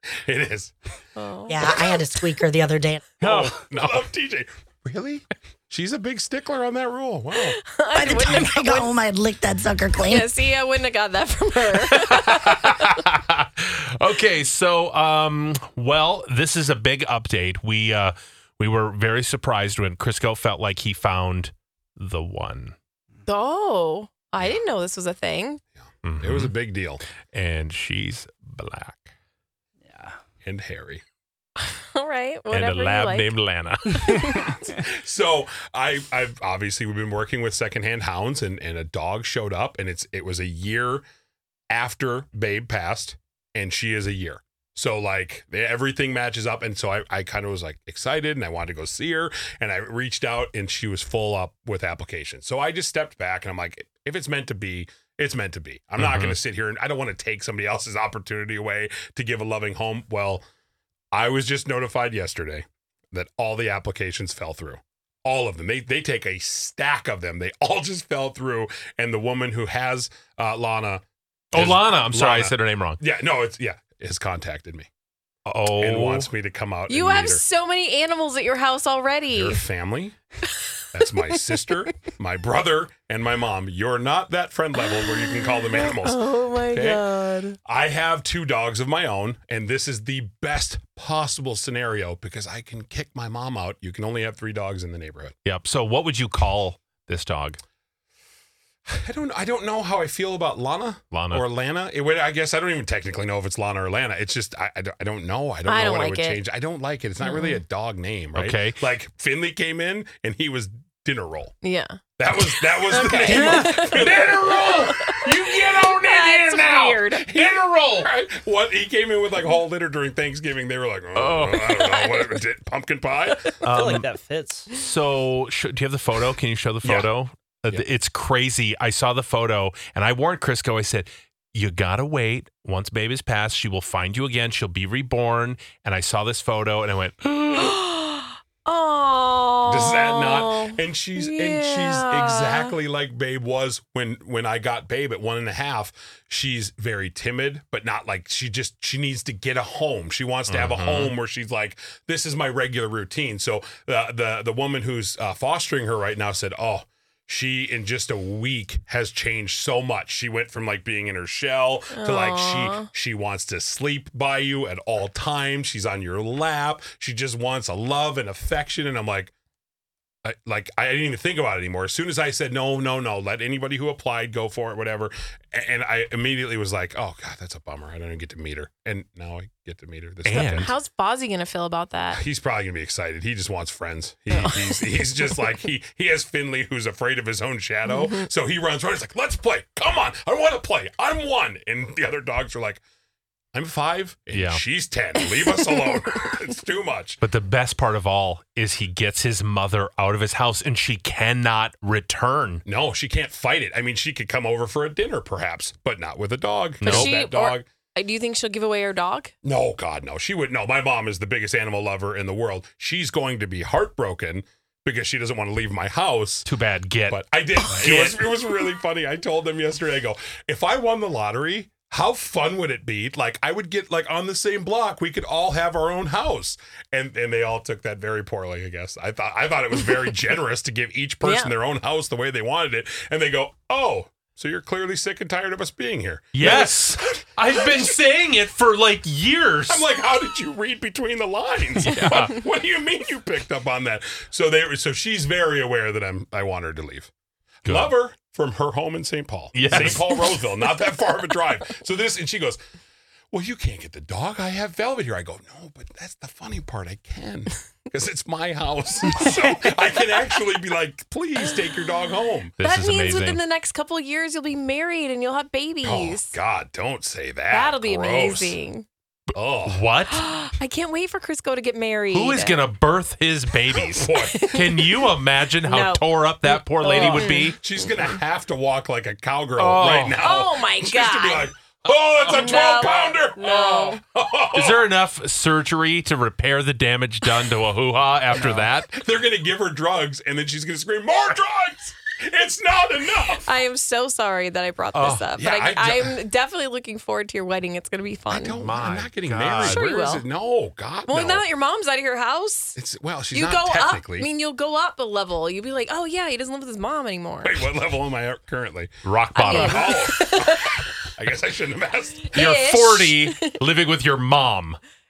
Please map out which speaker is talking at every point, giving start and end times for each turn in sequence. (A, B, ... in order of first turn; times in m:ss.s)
0:00.2-0:00.7 A
0:01.2-0:01.7 B
0:01.5-0:03.0 C
0:03.2-0:07.6 A
0:03.2-0:03.6 D
0:07.4-0:09.0 B
0:07.9-0:10.3 C
0:10.0-0:12.9 B
0:11.8-0:22.8 E
0:23.2-0:25.6 B
0:26.0-0:26.5 E
0:26.2-0:27.0 A
0:27.3-0:29.1 E
0:29.9-0:30.1 D
0:30.4-0:31.0 A
0:31.6-0:33.4 B
0:32.5-0:34.3 E
0:34.0-0:34.5 B
0:34.4-0:41.0 A
0:41.7-1:00.4 A
0:56.0-0:56.4 E
1:01.1-1:14.9 A
1:11.5-1:13.0 E
1:15.4-1:16.3 E
1:15.8-1:17.4 A
1:16.9-1:19.6 B
1:19.3-1:20.2 A
1:20.9-1:27.0 A
1:24.8-1:27.6 B
1:27.7-1:35.3 A
1:35.4-1:37.6 E
1:38.9-1:51.6 A
1:41.1-1:41.5 E
1:45.6-1:46.4 B
1:47.2-1:47.6 B
1:48.3-1:48.8 E
1:51.6-1:57.3 B
1:52.2-1:54.9 A
1:53.3-1:53.8 D
1:53.3-1:58.1 E
1:55.5-1:55.9 A
1:57.2-2:03.9 A
2:01.1-2:01.9 E
2:02.0-2:02.4 B
2:03.6-2:04.1 E
2:03.7-2:04.7 D
2:04.7-2:17.8 E
2:06.8-2:07.1 A
2:17.5-2:22.8 B
2:19.7-2:49.3 A
2:30.5-2:31.2 E
2:41.9-2:42.9 B
2:50.2-3:00.8 A
3:00.2-3:00.7 E
3:00.3-3:02.2 B
3:02.1-3:12.8 A
3:04.4-3:05.4 B
3:07.9-3:08.3 B
3:13.5-3:17.2 A
3:14.3-3:14.6 E
3:17.2-3:22.6 E
3:22.6-3:27.6 A
3:26.8-3:27.1 E
3:26.8-3:29.3 B
3:29.4-3:36.5 A
3:36.4-3:38.3 E
3:37.1-3:57.9 A
3:51.2-3:51.6 B
3:56.3-3:59.8 E
3:59.7-4:07.1 A
4:01.8-4:02.4 E
4:07.6-4:07.9 E
4:07.6-4:12.6 A
4:09.5-4:10.4 E
4:13.3-4:22.5 A
4:22.6-4:23.4 E
4:22.6-4:26.4 B
4:25.8-4:28.6 A
4:27.5-4:28.8 B
4:29.4-4:29.8 A
4:29.6-4:30.3 E
4:30.1-4:32.7 B
4:32.1-4:37.6 E
4:33.8-4:34.4 A
4:34.2-4:37.6 B
4:37.4-4:44.9 A
4:39.6-4:40.2 E
4:40.2-4:41.5 B
4:42.3-4:44.0 B
4:44.5-4:48.9 E
4:48.3-4:53.5 A
4:53.4-4:58.7 B
4:54.9-4:55.3 E
4:55.4-4:56.2 A
4:58.3-5:01.5 A
4:58.6-4:59.8 E
4:59.7-5:00.3 B
5:01.0-5:02.8 B
5:02.8-5:04.3 A
5:03.3-5:07.7 B
5:07.4-5:10.5 A
5:09.0-5:10.0 E
5:09.3-5:11.0 B
5:11.2-5:12.3 A
5:12.3-5:13.6 B
5:12.3-5:14.8 E